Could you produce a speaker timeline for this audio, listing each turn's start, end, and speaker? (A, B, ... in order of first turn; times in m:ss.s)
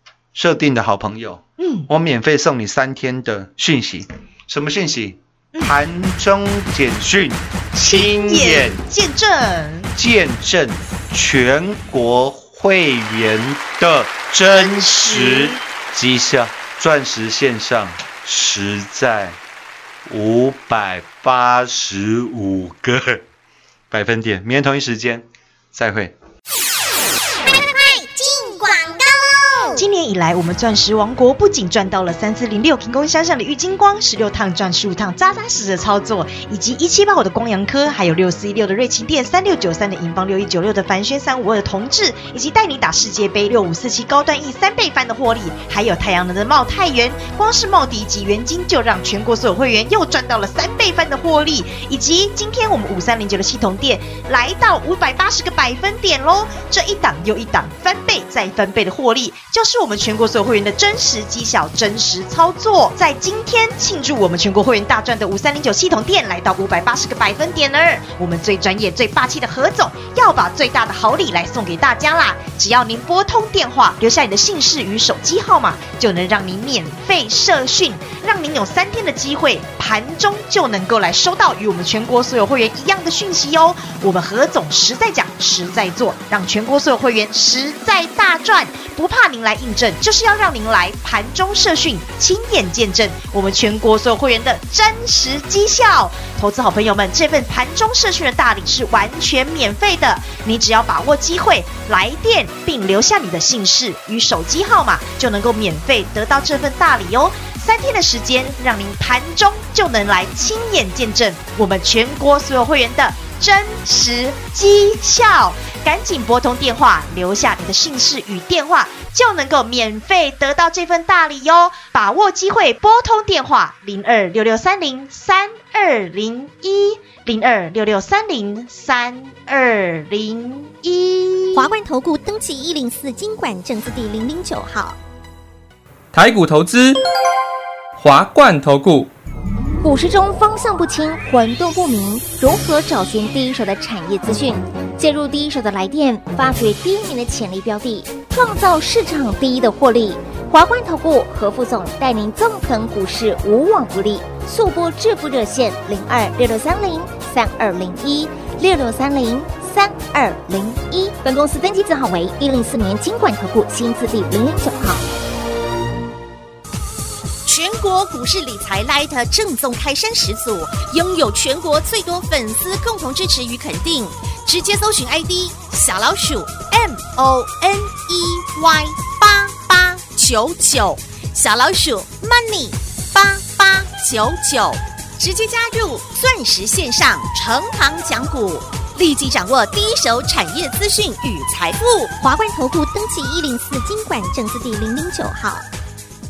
0:00.3-0:08.8 A
0:01.6-0:01.9 B
0:07.8-0:09.9 B
0:09.9-0:19.4 A
0:14.5-0:15.6 B
0:20.0-0:23.2 A
0:23.9-0:26.1 A
0:27.7-0:29.1 C
0:29.7-2:11.7 B
2:11.6-2:15.0 C
2:16.1-2:17.0 D
2:18.0-2:19.1 D
2:19.8-2:45.0 C
2:47.5-3:12.1 E
3:12.2-3:15.6 C